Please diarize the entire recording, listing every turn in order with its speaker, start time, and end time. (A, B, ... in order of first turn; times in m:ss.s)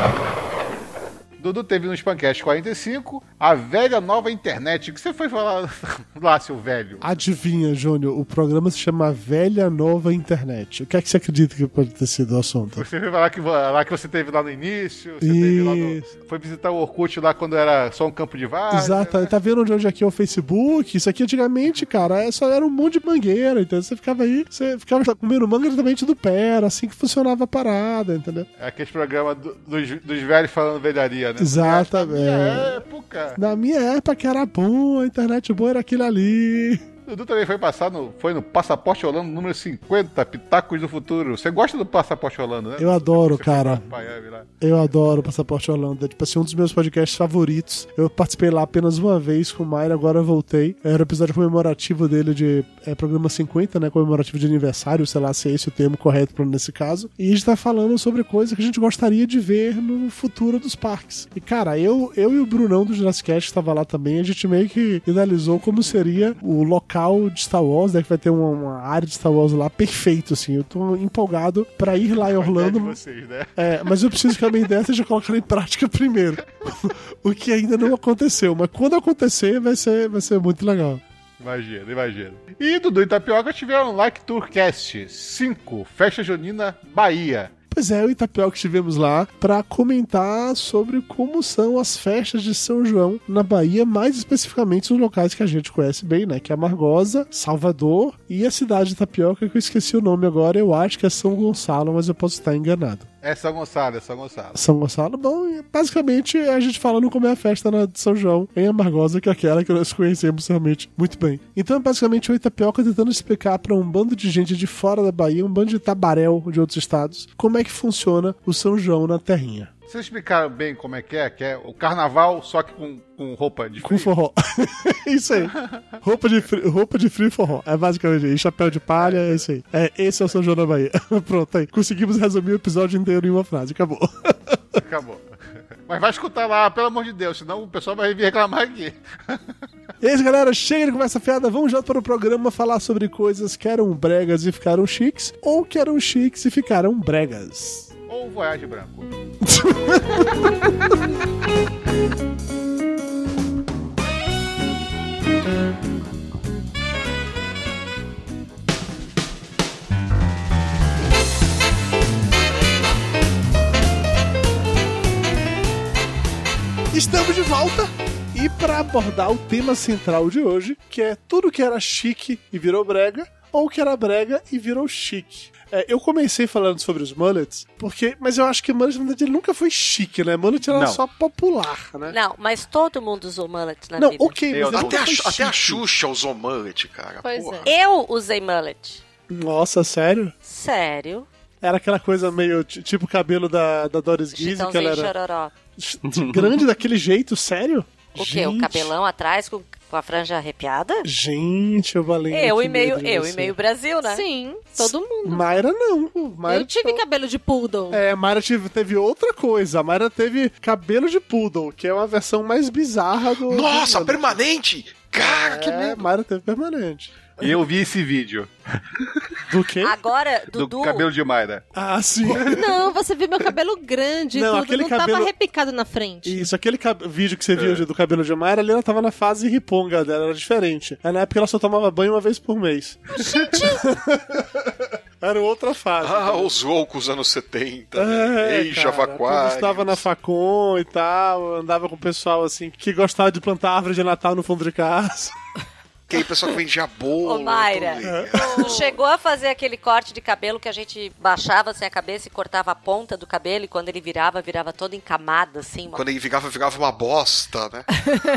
0:01.4-0:07.1 A
0:07.0-0:12.8 B
0:12.8-0:19.3 A
0:15.2-0:16.1 B
0:18.7-0:28.5 B
0:28.6-0:33.4 A
0:31.4-0:32.8 B
0:33.4-0:36.8 B
0:37.1-0:44.5 A
0:42.8-0:43.8 B
0:44.6-1:13.0 B
1:12.2-1:14.3 A
1:13.6-1:21.0 B
1:21.4-1:27.5 A
1:27.7-1:43.1 B
1:43.2-1:44.6 A
1:44.6-1:59.7 B
1:59.9-2:04.1 A
2:03.8-2:14.8 B
2:05.4-2:06.0 A
2:09.0-2:09.5 A
2:14.8-2:15.2 A
2:15.9-2:19.4 A
2:20.0-2:27.9 B
2:28.1-2:29.1 A
2:29.4-2:30.7 B
2:46.9-3:02.2 B
3:00.7-3:01.0 A
3:02.1-3:04.4 C
3:04.0-3:05.8 B
3:04.5-3:05.2 A
3:04.7-3:07.7 D
3:07.2-3:07.7 E
3:07.6-3:09.0 C
3:09.3-3:10.3 B
3:10.4-3:11.3 C
3:11.6-3:15.1 B
3:14.4-3:15.5 C
3:15.8-3:18.9 B
3:16.1-3:16.4 A
3:18.2-3:21.1 C
3:21.0-3:23.6 B
3:22.3-3:24.2 C
3:24.0-3:25.6 E
3:24.8-3:27.0 B
3:26.5-3:28.0 E
3:27.9-3:34.4 B
3:33.5-3:36.1 D
3:35.2-3:37.5 B
3:37.4-3:38.5 A
3:39.5-3:40.0 B
3:39.8-3:41.1 C
3:40.5-3:41.6 A
3:41.8-3:42.6 B
3:42.4-3:46.5 E
3:44.3-3:45.3 B
3:46.3-3:56.6 B
3:47.6-3:47.8 A
3:53.2-3:53.8 E
3:56.0-4:00.0 D
3:58.0-4:05.4 B
4:06.1-4:08.8 D
4:07.2-4:16.0 C
4:08.0-4:08.4 B
4:15.9-4:17.9 D